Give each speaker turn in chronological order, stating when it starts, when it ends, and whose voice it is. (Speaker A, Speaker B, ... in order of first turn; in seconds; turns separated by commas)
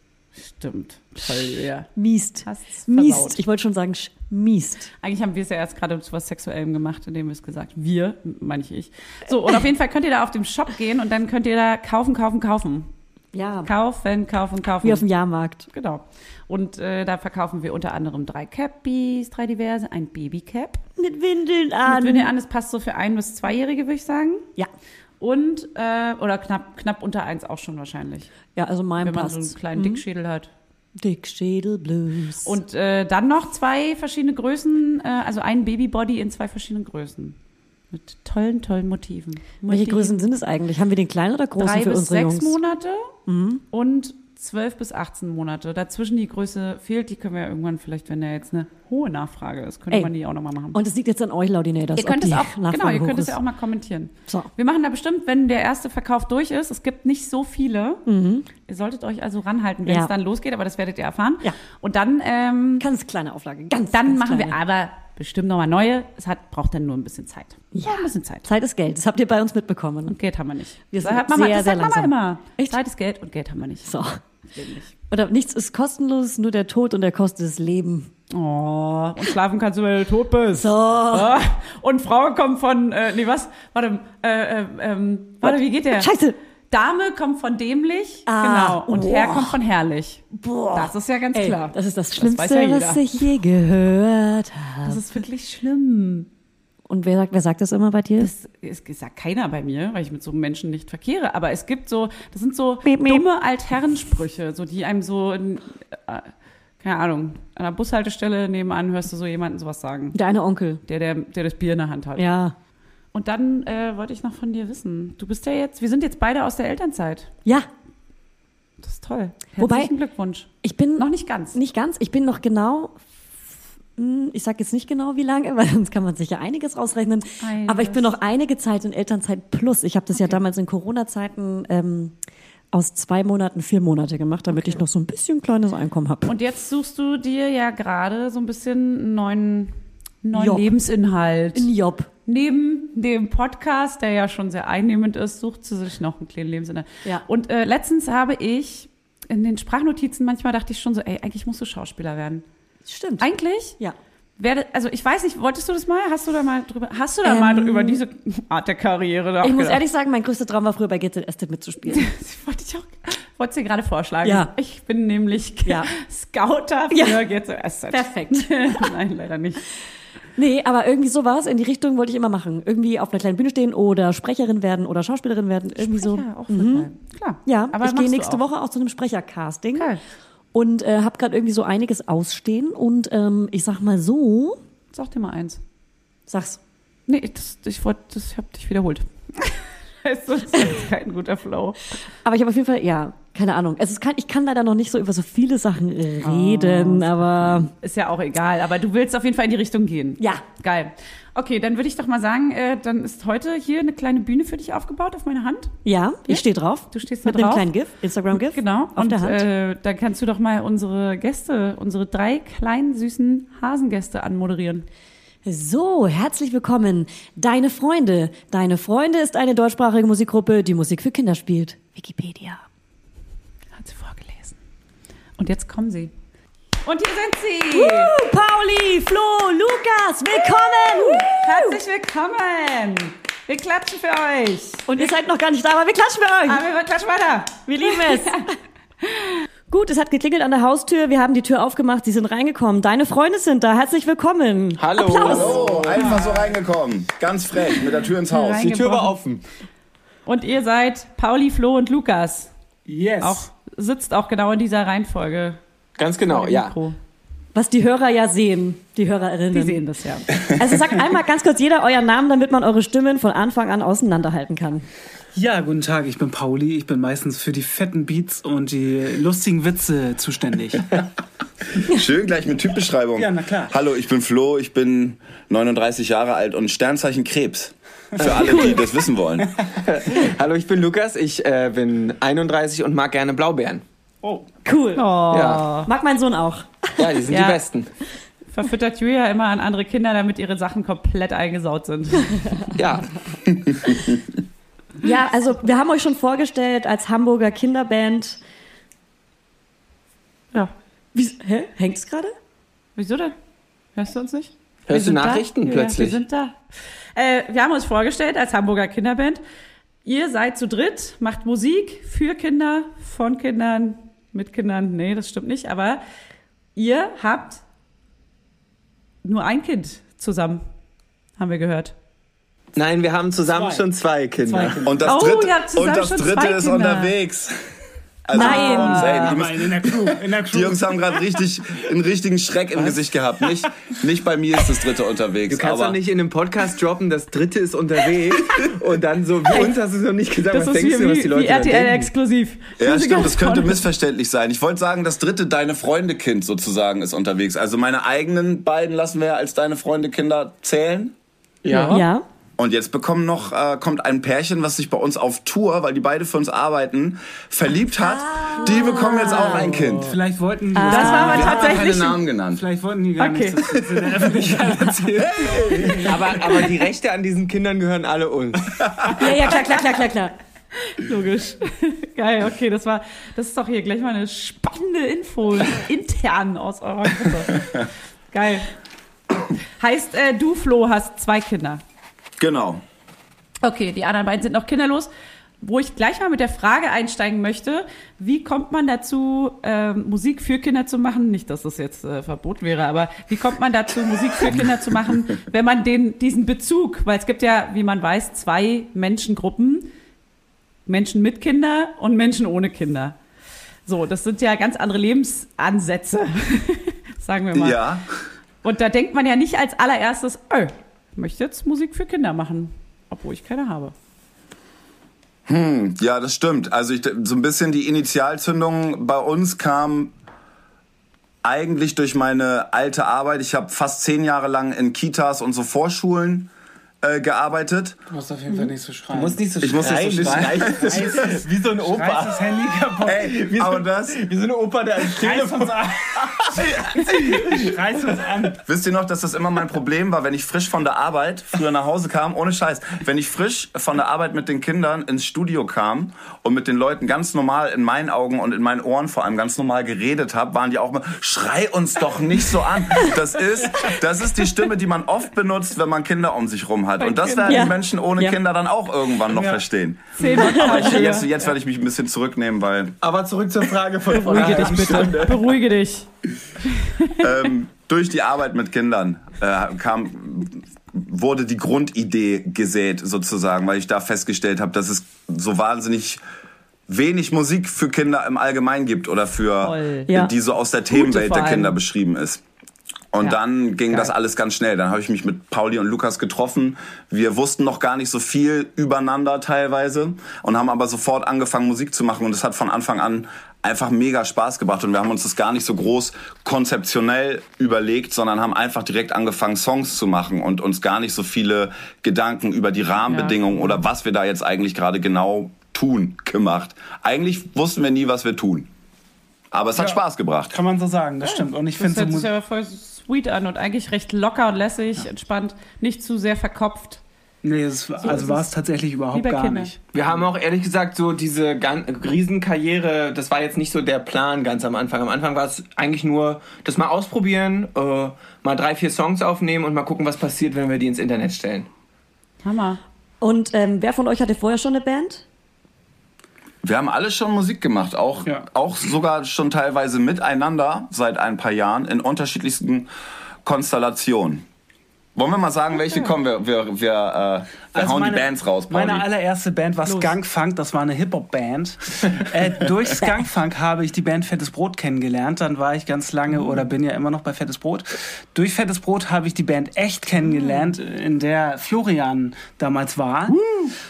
Speaker A: 0.3-1.9, Speaker B: 1.9-4.9, Speaker A: 2.4-3.4, Speaker A: 5.0-12.9, Speaker B: 13.3-13.7, Speaker A: 13.6-15.1, Speaker B: 14.8-15.7, Speaker A: 15.7-20.8, Speaker B: 21.0-22.3, Speaker A: 21.9-24.4, Speaker A: 25.2-28.3, Speaker B: 28.5-30.0, Speaker A: 29.0-30.5, Speaker B: 31.0-32.6, Speaker A: 32.4-37.4, Speaker A: 37.9-40.1, Speaker B: 39.6-42.6, Speaker A: 41.6-43.1, Speaker B: 43.2-43.6, Speaker A: 43.7-50.8, Speaker B: 50.7-53.4, Speaker A: 52.0-58.0, Speaker B: 58.0-58.5, Speaker A: 58.6-62.9, Speaker B: 59.8-60.1, Speaker B: 62.8-64.6, Speaker A: 63.9-68.5, Speaker B: 67.7-70.2, Speaker A: 70.1-73.9, Speaker B: 70.9-72.8, Speaker B: 73.8-74.2, Speaker A: 74.5-74.9, Speaker B: 75.1-78.1, Speaker A: 78.3-86.1, Speaker B: 80.5-81.4, Speaker B: 85.4-86.4, Speaker A: 86.7-93.2, Speaker B: 88.3-89.6, Speaker B: 90.3-95.0, Speaker A: 94.8-96.3, Speaker B: 96.9-98.3, Speaker A: 98.2-110.2, Speaker B: 102.8-103.2, Speaker B: 110.1-110.8, Speaker A: 110.8-112.3, Speaker B: 112.2-112.5, Speaker A: 113.1-117.3, Speaker A: 118.8-121.6, Speaker B: 119.6-119.9, Speaker B: 120.6-123.0, Speaker B: 124.0-132.2, Speaker A: 127.4-128.1, Speaker B: 132.7-136.3, Speaker A: 136.3-141.7, Speaker B: 140.3-140.7, Speaker B: 141.5-142.1, Speaker A: 142.2-152.4, Speaker B: 152.8-153.9, Speaker A: 153.2-153.8, Speaker A: 154.4-159.8, Speaker B: 157.2-158.0, Speaker B: 159.4-162.1, Speaker A: 161.9-169.7, Speaker B: 164.2-164.5, Speaker B: 166.9-167.2, Speaker B: 167.9-168.9, Speaker B: 170.4-176.9, Speaker A: 175.8-178.4, Speaker B: 177.4-179.9, Speaker A: 179.7-180.0, Speaker B: 180.5-184.6, Speaker A: 184.9-185.6, Speaker B: 186.3-186.6, Speaker A: 187.1-191.8, Speaker B: 192.2-197.7, Speaker A: 196.2-205.7, Speaker B: 205.8-209.4, Speaker A: 206.3-207.7, Speaker A: 208.3-214.9, Speaker B: 215.4-222.6, Speaker A: 223.8-224.6, Speaker A: 225.4-226.1, Speaker A: 226.8-228.1, Speaker B: 227.7-231.8, Speaker A: 231.0-235.1, Speaker B: 234.9-236.6, Speaker A: 236.5-238.4, Speaker B: 237.7-238.5, Speaker A: 239.1-239.3, Speaker B: 239.7-245.5, Speaker C: 244.8-246.0, Speaker A: 245.0-245.3, Speaker D: 245.2-248.8, Speaker E: 245.3-246.5, Speaker A: 248.3-249.2, Speaker C: 248.6-249.4, Speaker A: 250.2-252.5, Speaker E: 252.9-253.5, Speaker A: 253.2-255.6, Speaker C: 256.0-256.7, Speaker A: 256.3-257.0, Speaker B: 257.5-259.8, Speaker A: 259.5-260.4, Speaker B: 260.4-264.9, Speaker E: 265.3-271.0, Speaker D: 271.8-279.5, Speaker E: 273.1-273.7, Speaker C: 278.2-278.7, Speaker B: 278.4-278.8, Speaker C: 279.8-283.8, Speaker E: 284.2-284.5, Speaker B: 284.6-285.1, Speaker A: 284.9-285.9, Speaker C: 285.3-285.7, Speaker B: 285.8-287.2, Speaker C: 287.0-287.9, Speaker A: 287.3-287.6, Speaker A: 288.5-292.4, Speaker C: 292.7-293.1, Speaker D: 293.7-294.1, Speaker B: 295.0-298.4, Speaker B: 301.1-302.3, Speaker A: 302.9-303.4, Speaker A: 303.9-306.6, Speaker C: 304.9-306.2, Speaker A: 307.1-309.4, Speaker A: 310.0-316.0, Speaker A: 316.8-317.6, Speaker A: 319.2-320.6, Speaker A: 321.4-321.9, Speaker C: 322.7-324.9, Speaker E: 323.5-323.9, Speaker E: 324.4-325.2, Speaker D: 324.8-327.6, Speaker A: 325.0-327.1, Speaker D: 328.3-335.9, Speaker B: 328.3-329.3, Speaker E: 328.4-331.2, Speaker A: 328.4-329.2, Speaker E: 332.8-333.6, Speaker C: 335.5-342.1, Speaker A: 340.5-343.8, Speaker D: 342.8-351.1, Speaker C: 351.6-352.0, Speaker A: 351.7-352.0, Speaker B: 351.9-352.2, Speaker D: 352.6-360.2, Speaker B: 358.0-359.9, Speaker E: 359.5-366.4, Speaker B: 360.7-361.8, Speaker A: 360.9-362.2, Speaker D: 361.0-362.6, Speaker A: 363.2-363.6, Speaker D: 363.8-364.3, Speaker D: 365.2-366.1, Speaker C: 365.9-369.1, Speaker B: 369.2-370.3, Speaker A: 370.8-377.7, Speaker A: 378.3-378.7, Speaker A: 379.8-381.8, Speaker D: 382.4-382.8, Speaker A: 383.6-385.1, Speaker A: 385.6-399.9, Speaker A: 400.9-403.1, Speaker A: 403.9-407.8, Speaker D: 407.5-408.1, Speaker A: 408.6-413.9, Speaker D: 415.5-420.1, Speaker D: 421.4-426.5, Speaker D: 427.0-428.0, Speaker E: 428.1-429.5, Speaker C: 429.1-432.4, Speaker D: 429.6-431.3, Speaker E: 430.3-433.3, Speaker D: 433.0-434.2, Speaker C: 433.2-436.3, Speaker E: 435.1-438.6, Speaker C: 437.1-437.6, Speaker D: 438.6-462.9, Speaker A: 457.0-457.7, Speaker B: 457.4-458.4, Speaker E: 459.3-459.6, Speaker A: 460.1-461.3, Speaker B: 460.4-461.0, Speaker C: 463.0-465.5, Speaker A: 464.1-466.1, Speaker A: 466.7-467.2, Speaker D: 467.2-476.2, Speaker D: 476.9-482.4, Speaker A: 479.6-480.1, Speaker A: 480.9-481.8, Speaker D: 483.1-508.7, Speaker A: 503.1-503.8, Speaker D: 509.5-510.6, Speaker E: 510.5-512.3, Speaker A: 511.2-517.0, Speaker E: 517.4-519.8, Speaker A: 518.0-518.5, Speaker A: 519.1-519.7, Speaker C: 519.9-531.7, Speaker A: 532.4-532.8, Speaker B: 533.2-535.2, Speaker D: 536.6-542.9, Speaker D: 543.4-544.4, Speaker D: 545.1-549.0, Speaker E: 547.7-563.7, Speaker A: 549.9-550.1